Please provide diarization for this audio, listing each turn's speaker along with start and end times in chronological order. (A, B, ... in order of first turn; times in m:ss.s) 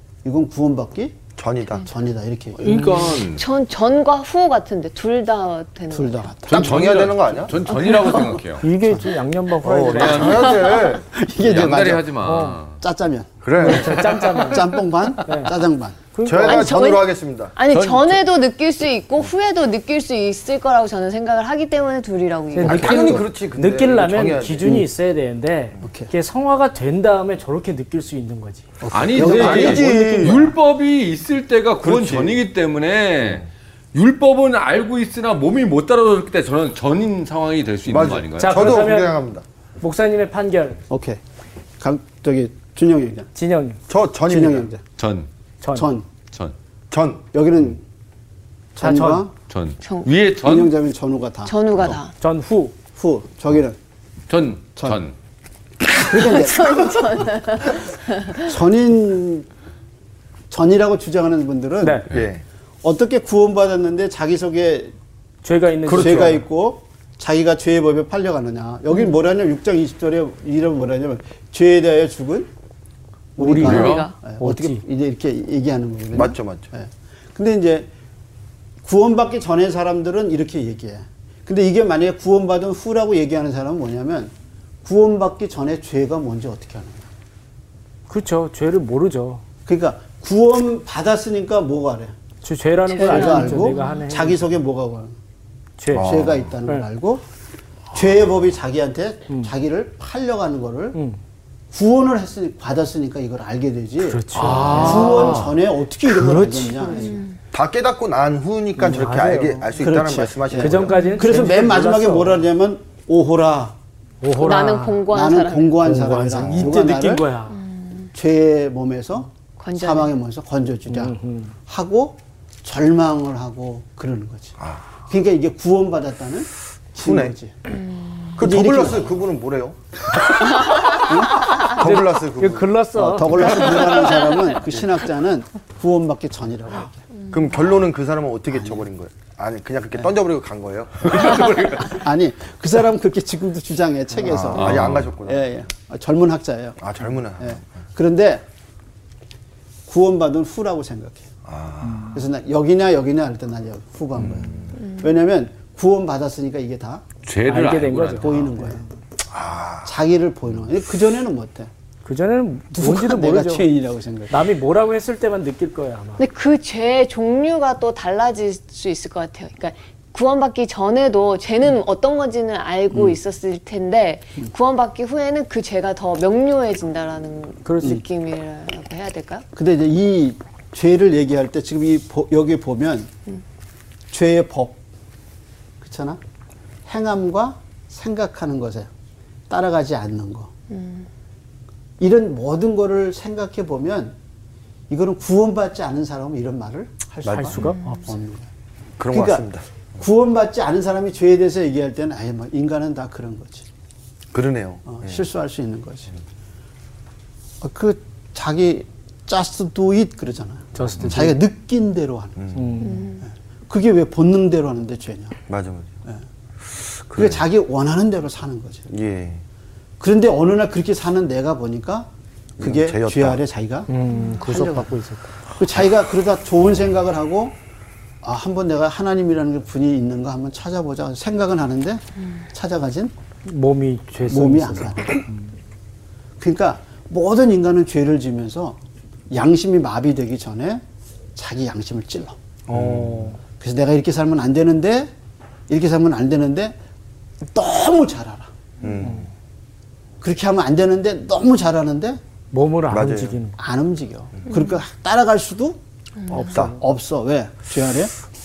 0:00.2-0:01.2 A
0:01.4-0:01.9 B
0:01.8-0:03.2 A
0:02.6-0:03.4 C
0:02.6-0:03.2 D
0:03.3-0:06.3 E
0:05.9-0:06.8 A
0:06.5-0:07.6 B
0:06.5-0:08.6 C
0:07.6-0:09.1 A
0:08.6-0:10.4 D
0:09.6-0:11.1 B
0:09.9-0:10.6 C
0:10.7-0:11.0 E
0:11.1-0:12.1 A
0:11.4-0:12.8 C
0:12.2-0:12.6 D
0:12.7-0:16.1 A
0:13.4-0:14.4 B
0:13.5-0:15.6 D
0:16.1-0:16.7 D
0:16.2-0:17.6 B
0:16.4-0:23.0 E
0:17.7-0:18.0 C
0:22.5-0:30.5 D
0:22.6-0:23.2 A
0:22.6-0:24.7 B
0:25.8-0:26.1 A
0:28.8-0:29.9 A
0:28.9-0:38.6 C
0:29.2-0:30.5 B
0:31.8-0:32.4 B
0:37.9-0:39.4 B
0:38.4-0:39.2 D
0:39.8-0:40.8 D
0:40.9-0:41.2 A
0:41.8-0:43.3 A
0:43.3-0:43.8 D
0:43.9-0:44.7 B
0:44.3-0:44.8 A
0:45.0-0:45.3 C
0:45.6-0:45.9 D
0:45.7-0:46.1 A
0:46.9-0:47.2 B
0:47.3-0:47.8 A
0:48.7-0:49.3 A
0:48.8-0:49.2 D
0:49.5-0:50.7 C
0:49.8-0:50.1 E
0:50.4-0:51.6 A
0:51.4-0:52.1 E
0:52.2-0:52.7 D
0:52.9-0:53.8 A
0:54.3-0:55.1 C
0:55.8-0:57.7 A
0:56.0-0:58.5 E
0:58.3-0:59.5 A
1:00.5-1:02.0 A
1:01.8-1:02.0 D
1:02.1-1:02.4 B
1:02.8-1:04.9 A
1:05.4-1:06.4 D
1:05.9-1:06.3 B
1:05.9-1:12.5 A
1:13.4-1:17.9 A
1:13.4-1:14.8 D
1:13.6-1:14.1 E
1:13.6-1:14.1 C
1:16.1-1:16.7 B
1:18.8-1:24.3 A
1:24.8-1:27.1 A
1:28.1-1:29.4 D
1:29.6-1:32.1 A
1:32.4-1:34.4 D
1:32.9-1:34.0 E
1:33.0-1:35.2 A
1:35.8-1:36.8 D
1:35.9-1:36.4 B
1:35.9-1:37.2 A
1:37.9-1:41.0 A
1:40.9-1:41.2 D
1:41.7-1:47.2 A
1:44.0-1:45.5 D
1:44.3-1:45.6 C
1:46.1-1:47.1 D
1:47.1-1:47.4 E
1:47.5-1:50.9 B
1:48.8-1:49.7 D
1:49.7-1:53.8 A
1:50.6-1:52.4 D
1:50.9-1:51.2 E
1:54.2-1:55.1 D
1:54.4-1:55.9 E
1:55.1-1:57.3 A
1:55.8-1:57.6 D
1:57.5-1:58.1 E
1:58.1-2:01.2 A
1:59.6-2:00.1 E
2:00.9-2:01.5 D
2:01.7-2:04.6 A
2:05.1-2:07.6 A
2:07.0-2:07.3 B
2:07.9-2:08.3 E
2:08.4-2:10.9 B
2:08.4-2:09.2 A
2:11.0-2:11.5 A
2:11.5-2:12.8 B
2:11.7-2:13.9 D
2:12.9-2:16.9 A
2:17.3-2:21.8 B
2:18.5-2:18.8 A
2:21.3-2:21.6 C
2:21.8-2:26.8 A
2:24.2-2:25.4 B
2:24.5-2:25.1 C
2:26.8-2:27.6 B
2:27.4-2:28.4 A
2:29.9-2:31.3 A
2:31.4-2:32.1 B
2:31.8-2:32.2 D
2:32.1-2:37.0 A
2:34.3-2:34.7 B
2:37.2-2:38.5 C
2:37.5-2:38.7 D
2:38.2-2:38.8 A
2:39.3-2:39.9 B
2:39.8-2:41.7 A
2:42.0-2:43.7 D
2:42.7-2:44.4 A
2:44.3-2:46.2 D
2:46.2-2:59.4 E
2:52.9-2:53.2 A
2:57.6-2:58.0 D
2:59.5-3:03.1 A
3:04.1-3:04.8 A
3:05.8-3:06.2 A
3:06.9-3:08.9 A
3:09.5-3:10.5 A
3:10.7-3:11.0 E
3:12.0-3:14.2 A
3:14.9-3:18.5 A
3:17.2-3:17.6 B
3:17.3-3:18.1 D
3:17.6-3:18.0 E
3:19.0-3:19.6 B
3:19.1-3:23.7 A
3:24.3-3:25.2 B
3:24.8-3:26.1 A
3:27.6-3:32.5 A
3:30.7-3:31.4 D
3:32.4-3:32.8 B
3:32.5-3:33.0 D
3:32.8-3:33.2 E
3:33.1-3:35.4 A
3:35.5-3:35.9 B
3:37.1-3:37.4 B
3:37.1-3:38.9 A
3:38.9-3:39.4 B
3:40.0-3:45.0 A
3:42.6-3:43.4 B
3:43.9-3:45.3 D
3:44.1-3:44.4 E
3:45.6-3:47.6 A
3:48.2-3:53.1 A
3:53.4-3:55.5 D
3:54.2-3:55.2 A
3:56.4-3:58.8 A
3:59.3-4:00.8 A
4:01.3-4:02.4 A
4:02.7-4:03.4 D
4:02.7-4:03.3 B
4:03.6-4:05.1 A
4:05.7-4:06.8 A
4:07.5-4:08.5 A
4:08.8-4:09.3 B
4:10.2-4:12.2 A
4:12.5-4:13.6 D
4:12.9-4:13.4 B
4:13.6-4:18.1 A
4:14.5-4:14.8 E
4:16.4-4:16.7 D